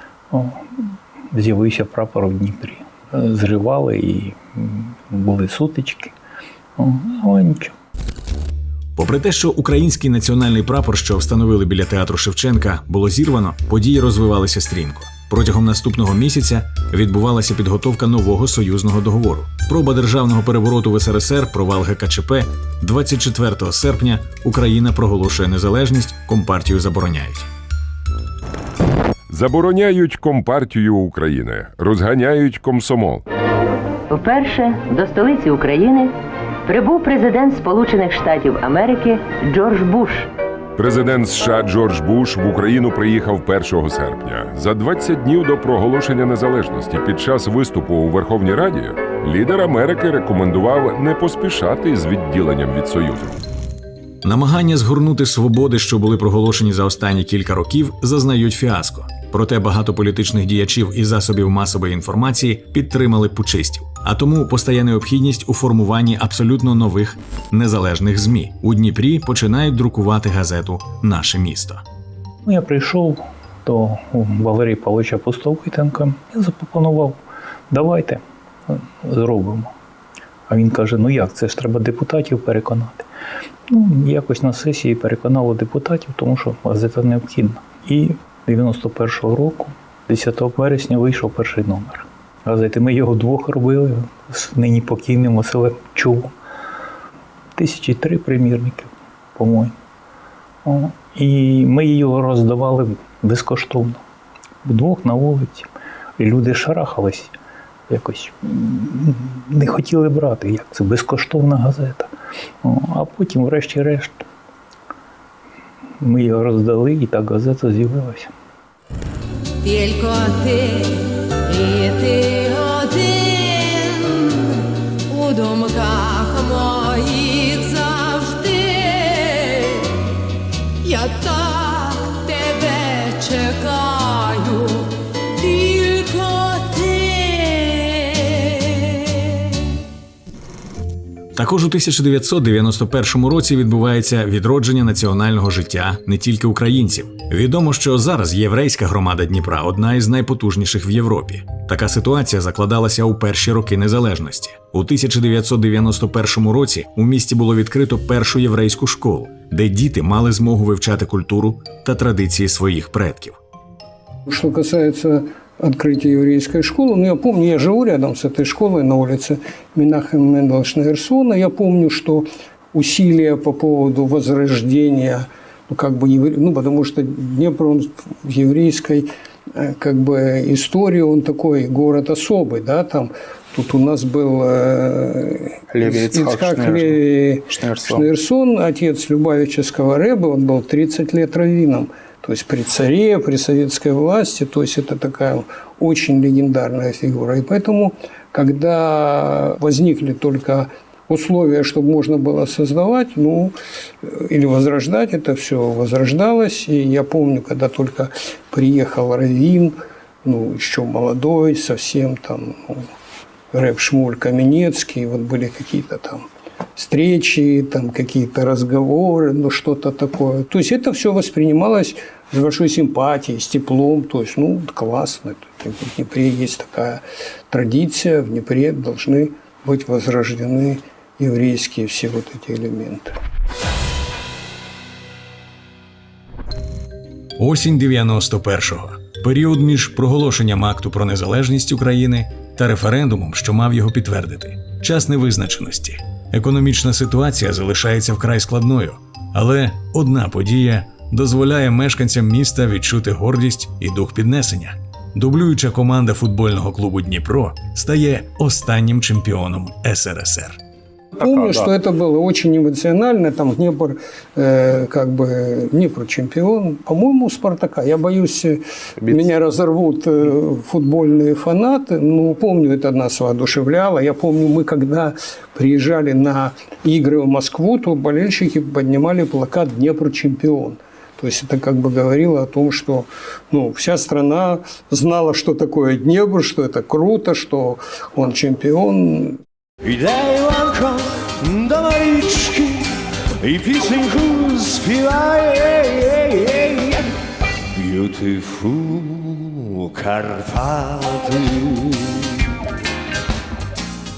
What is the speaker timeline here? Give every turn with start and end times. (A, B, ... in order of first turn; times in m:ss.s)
0:00.3-0:00.7 A
0:01.3-0:06.1 A
0:06.8-0:07.7 A
0:09.0-0:27.5 B
0:29.3-0:33.2 C
0:34.1-0:36.1 D
0:36.7-0:40.3 D
0:40.8-0:53.4 C
0:54.2-1:11.8 B
1:12.4-1:17.2 A
1:17.7-1:19.7 A
1:20.5-1:23.0 A
1:23.7-1:36.3 A
1:37.6-1:39.7 A
1:40.6-1:44.0 A
1:44.6-1:47.3 A
1:47.9-1:52.1 A
1:52.6-1:54.2 A
1:56.0-1:58.3 A
1:59.6-2:10.0 E
2:10.8-2:18.8 E
2:21.3-2:43.4 B
2:44.3-3:32.8 F
3:33.5-3:36.2 F
3:36.8-3:53.2 F
3:57.4-4:20.6 B
4:21.2-4:49.4 F
4:49.8-4:57.0 G
4:57.8-5:02.0 G